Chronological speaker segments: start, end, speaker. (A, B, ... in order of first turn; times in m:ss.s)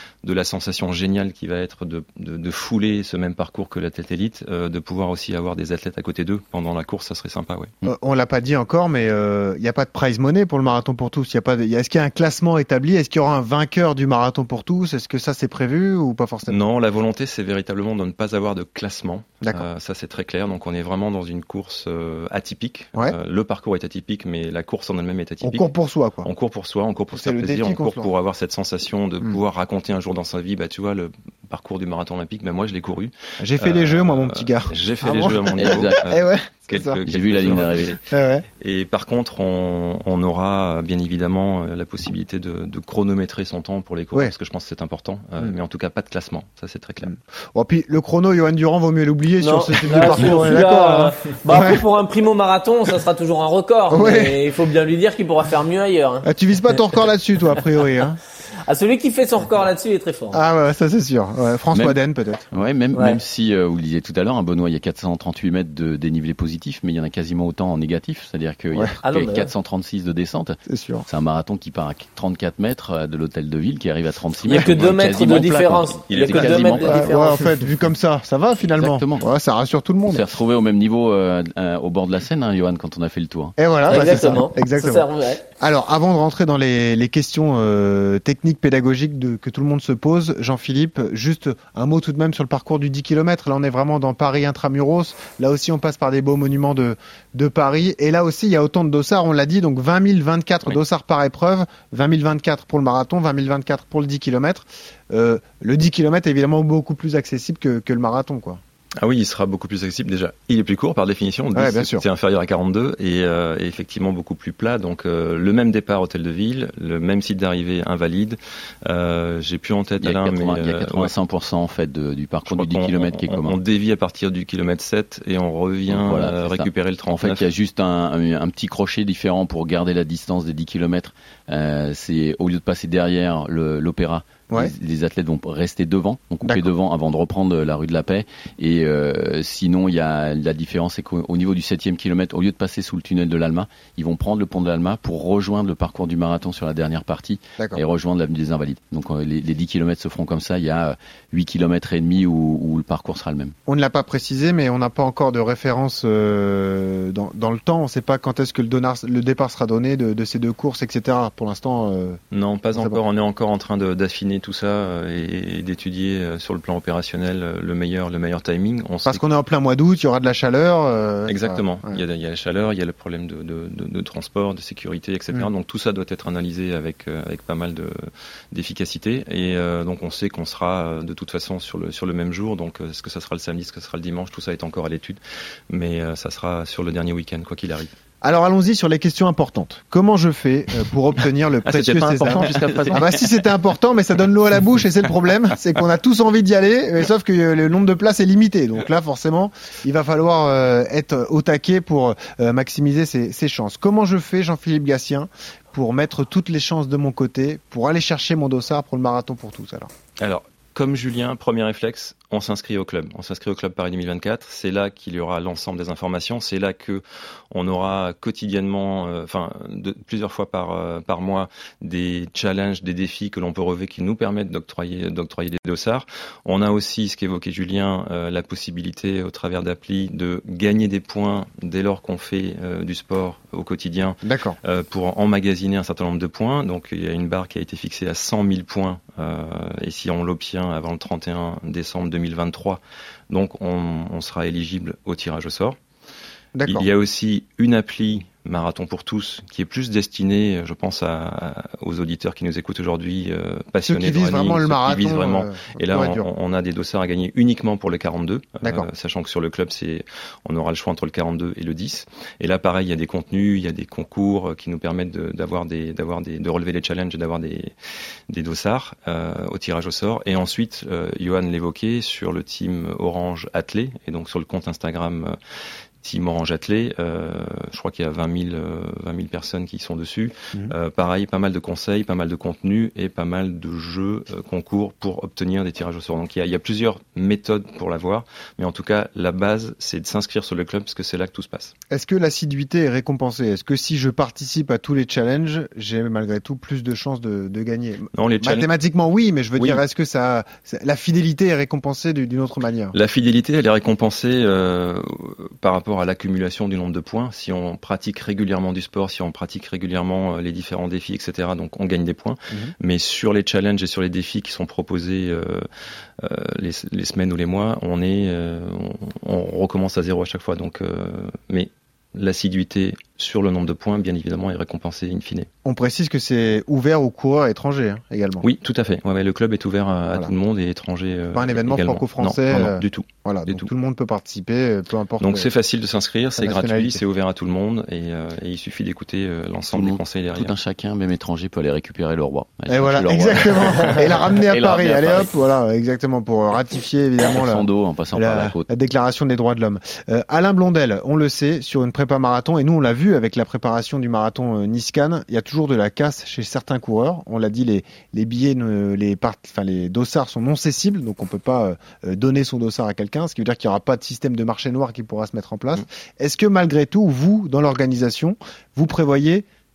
0:00.2-0:07.7 A
0:07.8-0:16.6 B
0:16.5-0:25.7 A
0:25.4-0:26.3 B
0:26.2-0:38.0 A
0:27.1-0:28.1 B
0:33.4-0:38.5 B
0:35.6-0:36.0 C
0:37.1-0:37.9 C
0:38.6-0:47.1 A
0:47.0-0:51.8 B
0:49.4-0:56.3 D
0:53.9-0:54.4 B
0:56.2-0:58.2 B
0:58.7-1:00.4 D
1:00.3-1:02.5 B
1:02.5-1:17.2 C
1:09.0-1:09.5 D
1:10.7-1:11.0 B
1:14.5-1:17.5 D
1:16.1-1:17.0 A
1:16.9-1:20.3 B
1:18.8-1:19.3 C
1:20.1-1:24.4 C
1:23.6-1:25.1 B
1:23.9-1:25.4 D
1:25.6-1:48.6 B
1:49.0-2:01.1 A
1:51.6-1:52.0 B
2:00.0-2:03.6 C
2:02.5-2:07.5 A
2:05.9-2:33.6 C
2:16.4-2:16.7 B
2:33.7-2:42.2 B
2:42.3-2:49.2 A
2:42.7-2:43.0 B
2:49.1-2:52.0 B
2:51.3-3:05.2 A
3:05.7-3:07.9 A
3:08.2-3:29.9 B
3:11.7-3:13.2 A
3:30.2-4:05.8 A
3:54.2-3:54.6 B
4:06.6-4:06.9 B
4:06.7-4:27.7 A
4:13.9-4:16.2 B
4:18.6-4:18.9 B
4:28.3-4:35.4 A
4:36.0-4:51.7 A
4:51.9-5:03.0 B
4:58.2-4:58.7 A
4:59.6-4:59.8 A
5:02.9-5:15.7 A
5:16.2-5:25.5 A
5:25.6-5:28.4 B
5:28.4-5:33.7 A
5:31.3-5:35.5 B
5:35.2-5:40.6 A
5:36.4-5:37.0 B
5:39.7-5:45.3 C
5:42.7-6:09.5 B
5:47.2-5:48.7 C